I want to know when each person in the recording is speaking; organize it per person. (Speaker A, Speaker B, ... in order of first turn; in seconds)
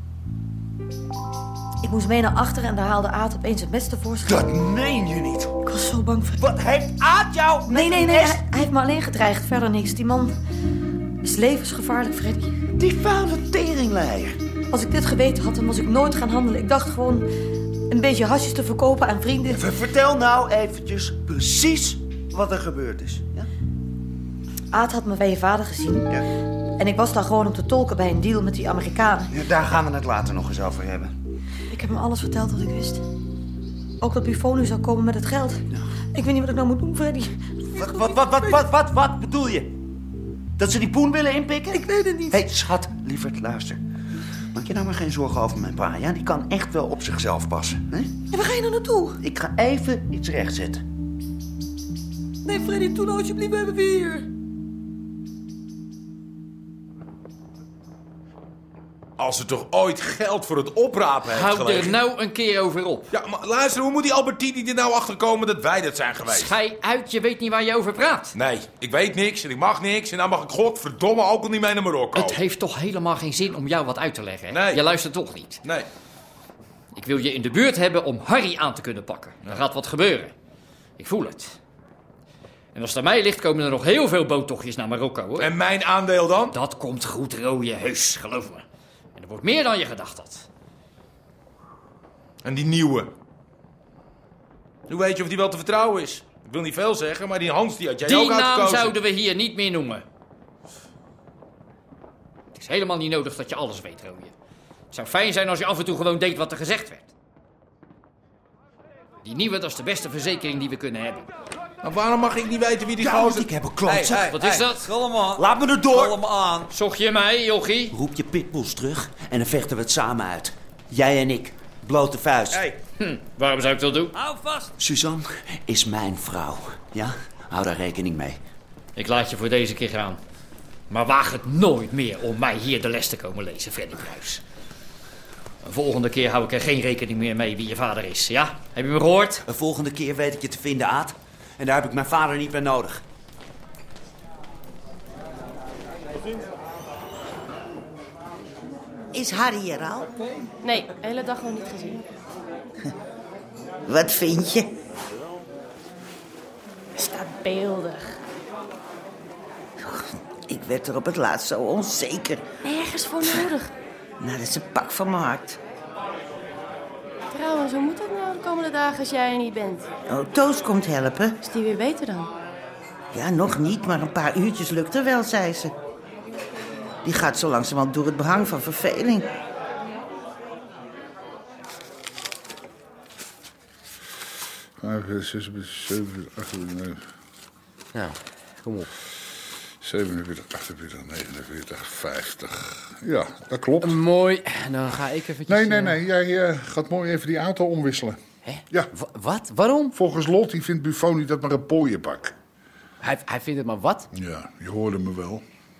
Speaker A: 1.8-4.5, 5.6-6.4, 7.7-10.3, 11.2-12.6, 14.7-17.3, 17.9-19.6, 24.7-26.1, 26.8-29.3, 31.7-33.0, 34.0-38.6, 41.7-42.4, 48.3-49.2, 52.4-54.2
Speaker B: 4.2-5.6, 6.4-8.4, 12.8-14.4, 19.5-23.5, 29.3-31.1, 37.8-39.7, 40.6-43.8, 44.5-48.2, 49.2-50.8, 113.0-116.7, 117.9-122.7, 124.8-128.4, 139.4-143.0
Speaker C: 59.2-62.0, 63.1-66.5, 68.3-72.4, 74.5-74.8, 85.4-86.5, 92.4-93.1, 94.9-99.0, 111.8-113.5
Speaker D: 61.3-63.0, 66.3-68.3, 72.2-75.6, 76.9-80.3, 81.0-81.6, 82.7-85.5, 86.5-88.6, 89.2-90.5, 98.1-100.0, 102.5-104.3, 104.9-107.1, 109.2-111.2, 114.2-114.8, 116.7-117.9, 123.0-124.1, 129.0-130.2, 130.9-134.4, 135.6-139.4
Speaker E: 149.1-150.1, 153.9-154.7, 160.5-162.4, 164.2-165.6, 170.1-171.3, 173.1-175.7, 177.0-179.2
Speaker F: 150.6-152.1, 157.0-158.2, 162.6-163.7, 167.3-169.9, 171.4-172.3
Speaker G: 184.8-187.0, 189.8-194.0, 195.4-198.2, 199.9-202.3, 204.1-205.4
Speaker H: 193.8-195.9, 198.5-199.9